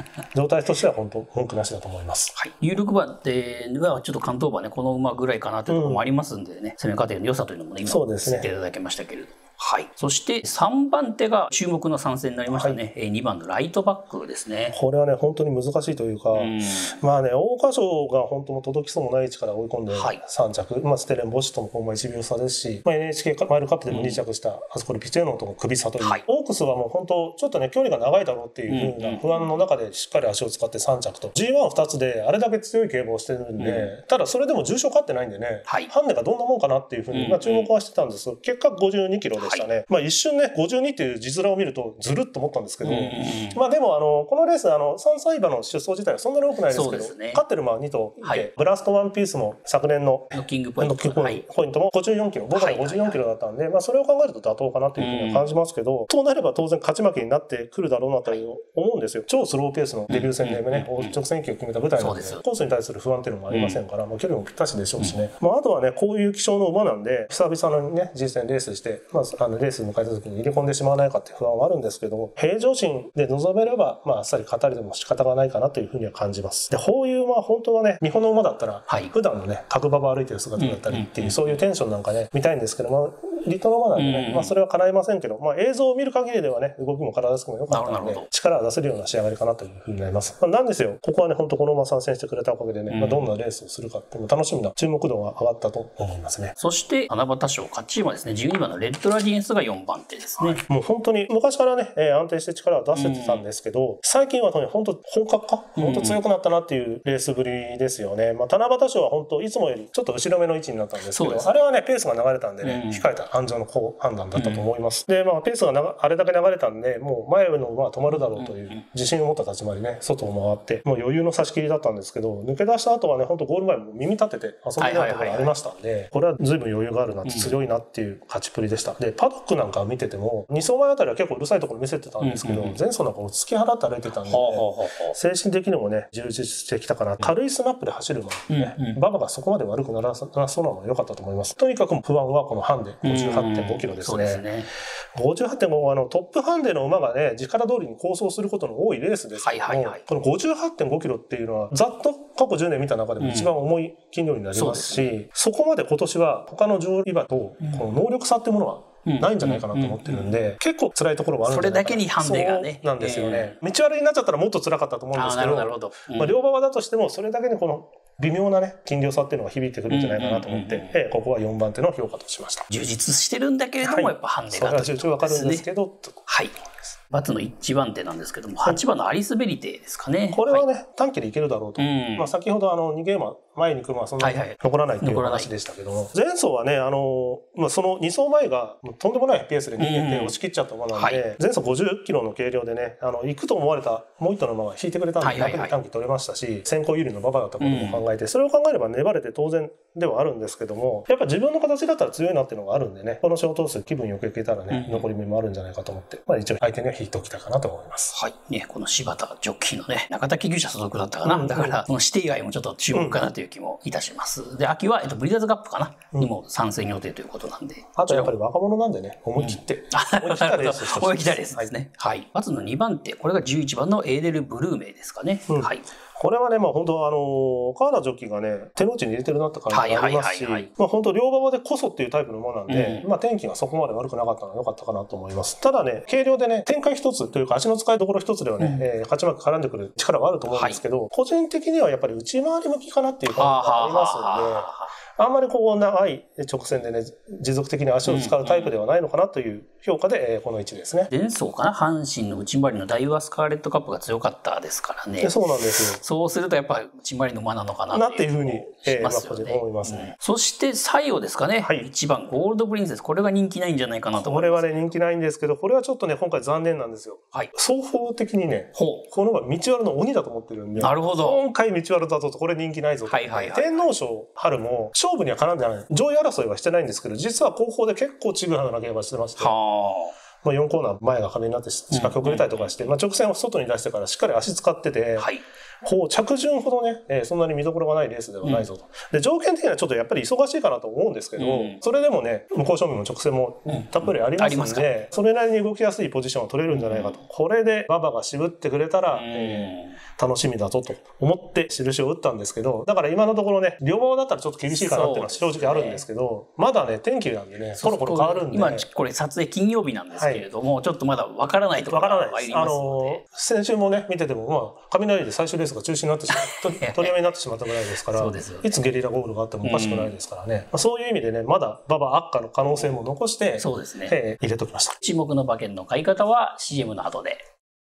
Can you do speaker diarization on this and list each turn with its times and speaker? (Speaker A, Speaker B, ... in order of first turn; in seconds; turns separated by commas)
Speaker A: 0.3-2.4, Speaker B: 2.4-14.8, Speaker A: 5.7-6.1, Speaker A: 7.8-8.5, Speaker A: 12.5-12.8, Speaker A: 14.7-96.5, Speaker B: 16.3-17.0, Speaker B: 19.9-20.2, Speaker B: 23.9-24.2, Speaker B: 28.7-29.5, Speaker B: 33.6-33.9, Speaker B: 37.1-37.7, Speaker B: 39.4-39.7, Speaker B: 42.8-43.6, Speaker B: 46.7-47.4, Speaker B: 50.3-51.4, Speaker B: 52.5-53.2, Speaker B: 55.0-55.4, Speaker B: 60.1-61.2, Speaker B: 62.0-62.4, Speaker B: 63.5-63.8, Speaker B: 78.9-79.1, Speaker B: 80.5-81.5, Speaker B: 83.9-84.5, Speaker B: 87.7-88.3, Speaker B: 92.9-93.3, Speaker B: 96.6-100.6, Speaker A: 100.4-144.4, Speaker B: 102.9-103.4, Speaker B: 105.8-106.2, Speaker B: 111.0-111.5, Speaker B: 112.6-113.0, Speaker B: 114.3-114.6, Speaker B: 118.1-118.8, Speaker B: 124.8-125.5, Speaker B: 127.2-127.5, Speaker B: 132.2-132.8, Speaker B: 134.2-135.2, Speaker B: 138.5-139.0, Speaker B: 143.0-144.7, Speaker A: 145.1-172.7, Speaker B: 149.4-150.0, Speaker B: 153.2-153.5, Speaker B: 154.5-155.1, Speaker B: 157.6-157.9, Speaker B: 159.1-160.3, Speaker B: 161.4-163.6, Speaker B: 165.1-166.3, Speaker B: 169.9-171.0, Speaker B: 172.7-175.6, Speaker A: 173.8-176.2, Speaker B: 176.3-176.5, Speaker B: 177.1-180.7, Speaker A: 180.3-208.1, Speaker B: 181.8-182.3, Speaker B: 184.2-185.5, Speaker B: 189.8-190.4, Speaker B: 190.9-191.2, Speaker B: 195.2-195.7, Speaker B: 197.6-198.0, Speaker B: 204.7-205.1, Speaker B: 208.1-218.3, Speaker A: 211.2-211.8, Speaker A: 212.9-213.2, Speaker A: 218.0-221.7, Speaker B: 219.3-225.8, Speaker A: 225.5-251.1, Speaker B: 229.7-230.7, Speaker B: 232.7-233.0, Speaker B: 238.6-238.8, Speaker B: 240.5-240.8, Speaker B: 243.3-244.9, Speaker B: 248.1-248.7, Speaker B: 251.1-264.9, Speaker A: 255.2-256.0, Speaker A: 257.9-260.1, Speaker A: 264.1-279.5, Speaker B: 268.8-269.1, Speaker B: 270.8-271.4, Speaker B: 273.1-273.9, Speaker B: 279.4-280.1, Speaker A: 280.4-285.3, Speaker B: 281.9-282.9, Speaker B: 285.2-285.4, Speaker A: 285.8-308.9, Speaker B: 291.4-291.8, Speaker B: 293.7-295.1, Speaker B: 296.7-297.2, Speaker B: 299.1-300.0, Speaker B: 304.7-306.0, Speaker B: 307.8-313.2, Speaker A: 310.1-310.5, Speaker A: 311.9-324.9, Speaker B: 316.3-317.2, Speaker B: 317.7-318.7, Speaker B: 319.6-320.1, Speaker B: 323.6-324.1, Speaker B: 325.0-327.4